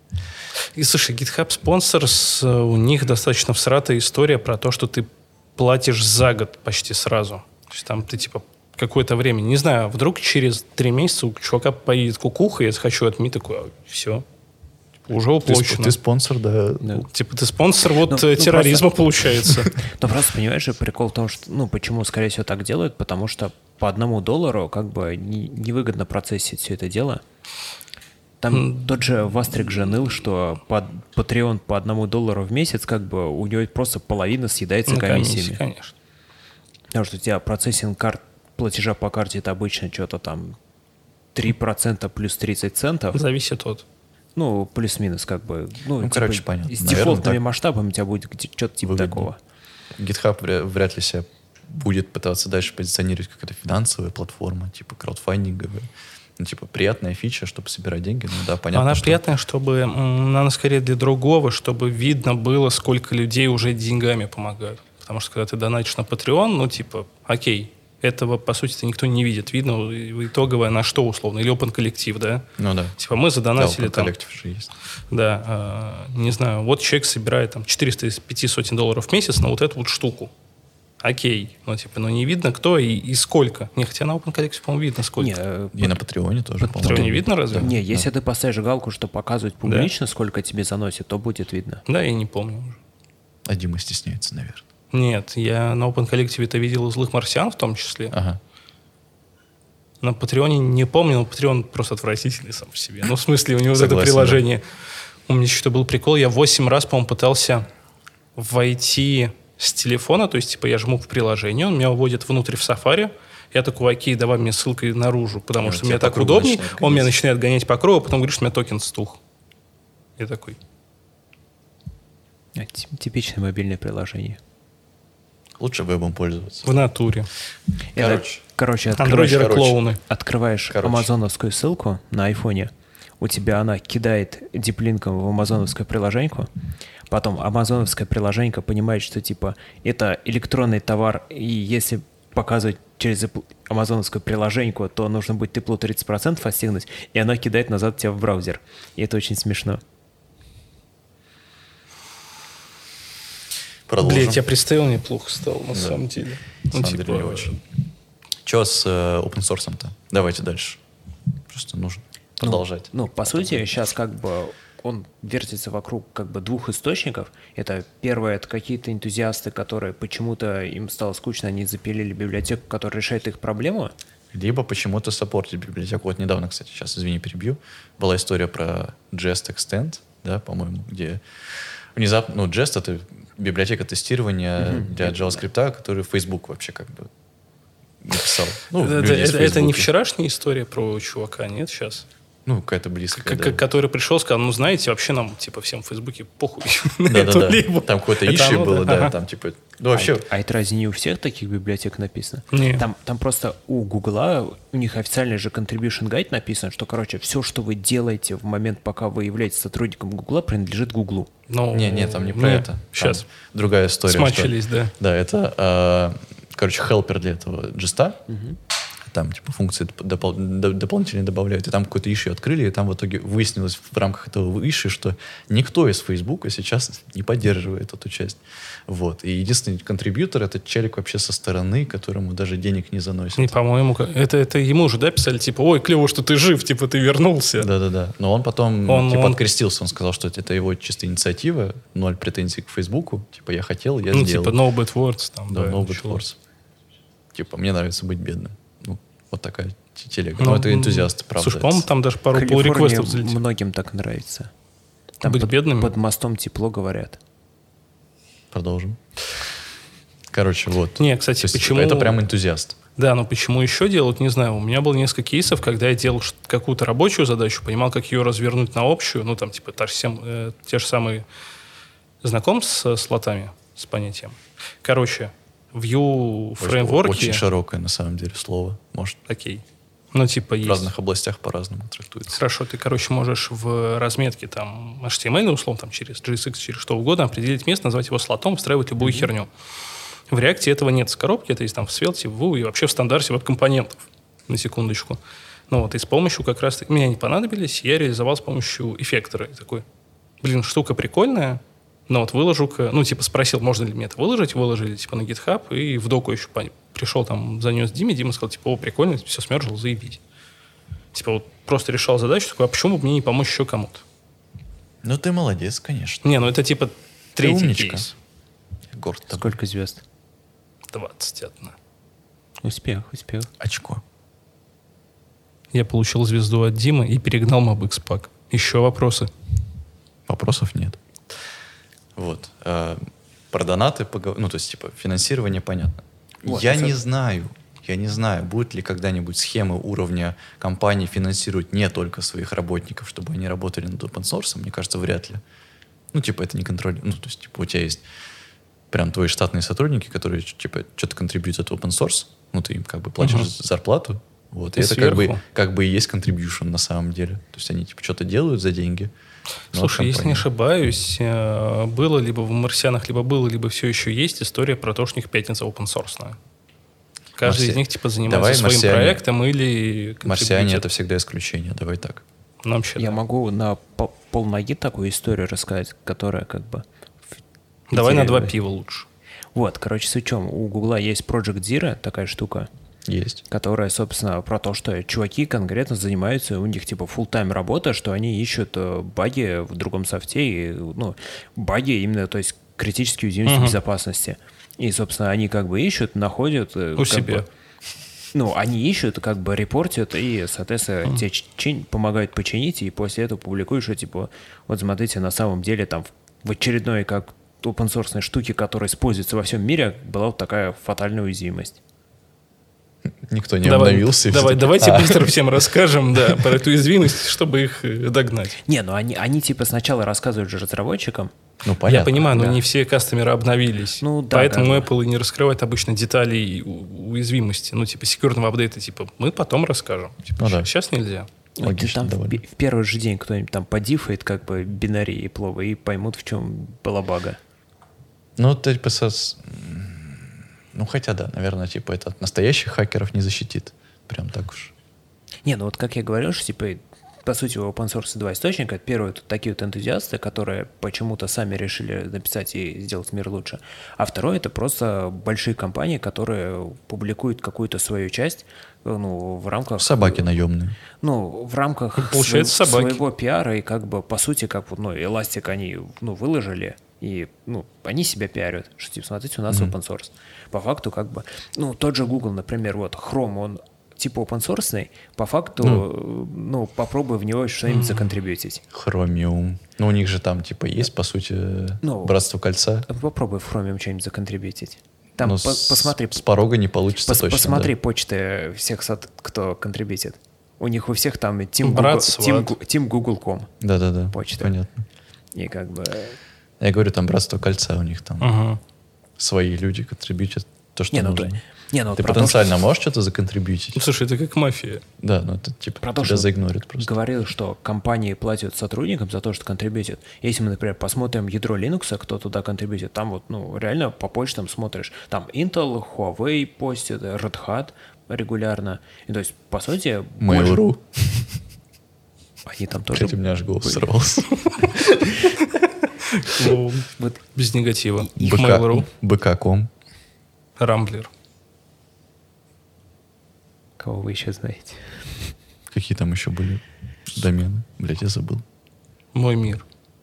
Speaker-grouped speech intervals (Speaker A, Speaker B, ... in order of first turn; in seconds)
Speaker A: 0.8-14.2, 15.1-16.0, 17.0-19.8, 34.9-35.9, 43.1-43.9, 58.7-72.5, 73.0-74.1, 75.1-80.3, 81.0-85.3, 86.8-87.7, 89.6-89.9, 91.9-92.8, 94.9-98.2, 100.0-104.6, 105.3-107.7, 108.4-119.2, 120.2-120.6, 126.7-127.3, 129.0-130.0, 154.0-157.6, 188.8-192.1, 193.2-199.1, 202.5-202.8, 211.5-213.2, 214.1-214.9, 233.4-237.7, 238.9-239.5, 244.1-246.2, 250.4-253.4, 255.2-255.9, 261.0-262.2, 263.0-271.2, 272.2-277.4, 279.3-280.9, 282.3-289.5, 290.3-299.8, 300.4-310.2, 311.1-314.0, 316.2-318.1, 320.9-321.8, 325.7-329.3, 353.2-353.5, 354.8-355.4, 359.7-366.4, 367.4-370.9, 372.6-373.2, 377.9-379.1, 393.5-393.8, 397.0-397.5, 413.6-418.6, 421.9-431.3, 462.0-463.0, 477.7-478.1, 491.6-492.5, 498.2-498.6, 503.8-504.8, 525.4-528.9, 530.6-531.1, 539.1-539.7
Speaker B: 15.4-16.9, 46.0-47.4, 48.8-49.3, 50.0-59.2, 72.6-73.0, 73.5-74.7, 85.7-88.1, 93.5-94.7, 98.1-98.4, 103.7-104.5, 115.6-117.2, 125.6-126.7, 128.0-128.4, 129.3-129.8, 130.7-131.1, 153.9-154.4, 155.7-156.1, 156.7-157.6, 158.4-160.8, 161.5-162.9, 174.3-181.2, 181.9-187.1, 188.0-189.9, 192.5-193.6, 197.1-200.3, 211.7-218.3, 219.1-233.5, 237.6-244.6, 245.5-246.4, 247.3-251.9, 258.5-259.0, 260.3-262.8, 276.6-279.2, 280.6-282.4, 315.0-316.2, 317.4-318.1, 318.9-319.6, 323.6-324.0, 330.3-331.0, 332.2-345.4, 346.1-348.0, 348.9-359.1, 359.7-360.5, 367.4-369.2, 370.2-372.2, 383.1-383.4, 413.1-415.3, 421.6-422.4, 430.4-430.7, 431.6-432.4, 438.4-444.7, 459.8-460.8, 478.7-482.9, 485.2-487.7, 493.6-494.9, 496.6-498.3, 499.2-501.4, 501.9-503.8, 505.0-506.9, 520.2-521.4, 522.9-524.3, 528.2-529.7, 535.7-538.4
Speaker C: 18.1-18.9, 19.8-27.2, 28.4-35.6, 36.9-40.6, 41.4-43.2, 44.4-49.4, 85.2-86.0, 86.6-91.8, 122.6-124.4, 128.0-136.5, 137.1-149.8, 162.4-173.9, 184.6-185.4, 199.9-211.3, 218.3-218.6, 252.3-254.5, 255.2-257.2, 289.0-289.3, 319.3-320.0, 322.6-323.5, 336.5-337.0, 373.0-376.9, 377.9-378.6, 379.6-382.7, 383.5-397.4, 398.3-411.8, 418.7-421.3, 422.3-422.6, 424.0-424.9, 431.6-437.4, 445.4-460.3, 461.0-478.6, 481.8-482.2, 482.9-486.3, 487.1-493.5, 494.1-494.5, 495.4-496.2, 500.9-502.6, 505.8-520.6, 522.5-523.9, 525.0-525.3, 526.4-527.2, 533.8-535.3